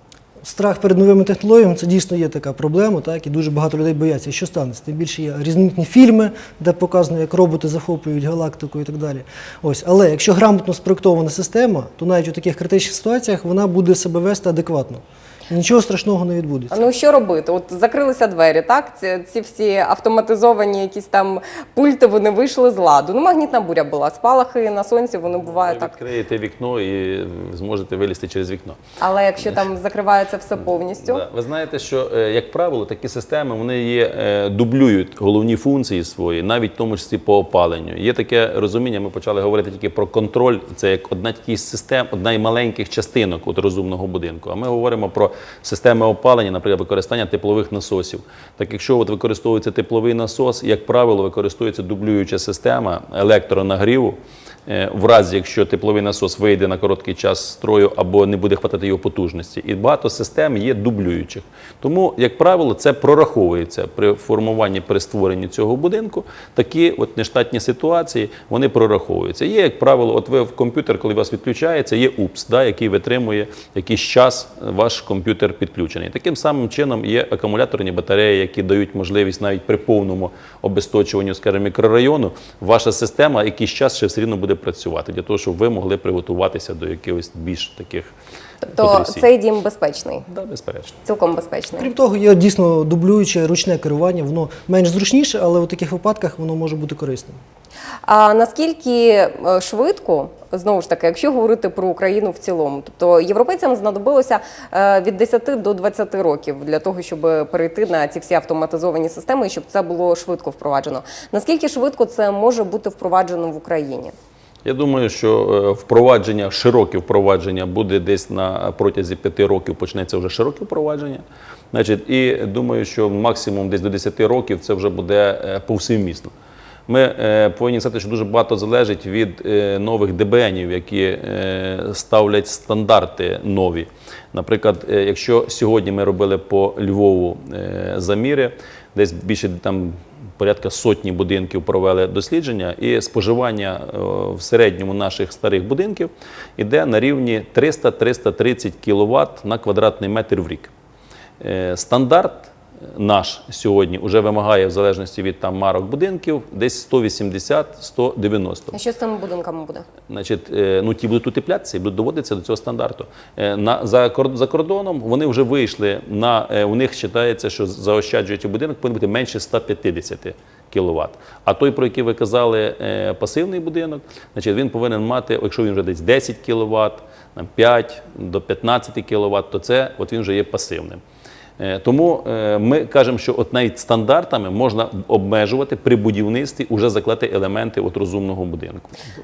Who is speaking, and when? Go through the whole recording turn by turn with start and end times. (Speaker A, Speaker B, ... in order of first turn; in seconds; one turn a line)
Speaker A: 0.4-16.8
Speaker B: 16.7-25.9
Speaker C: 25.3-28.8
Speaker B: 29.0-31.2
Speaker C: 30.8-88.1
Speaker B: 88.6-90.2
Speaker C: 88.8-89.3
Speaker C: 90.3-91.0
Speaker B: 91.0-91.9
Speaker A: 91.8-97.4
Speaker B: 98.0-114.1
Speaker C: 114.6-126.3
Speaker C: 126.9-150.7
Speaker C: 151.4-158.8
Speaker B: 158.7-159.9
Speaker C: 160.1-181.0
Speaker C: 181.6-189.0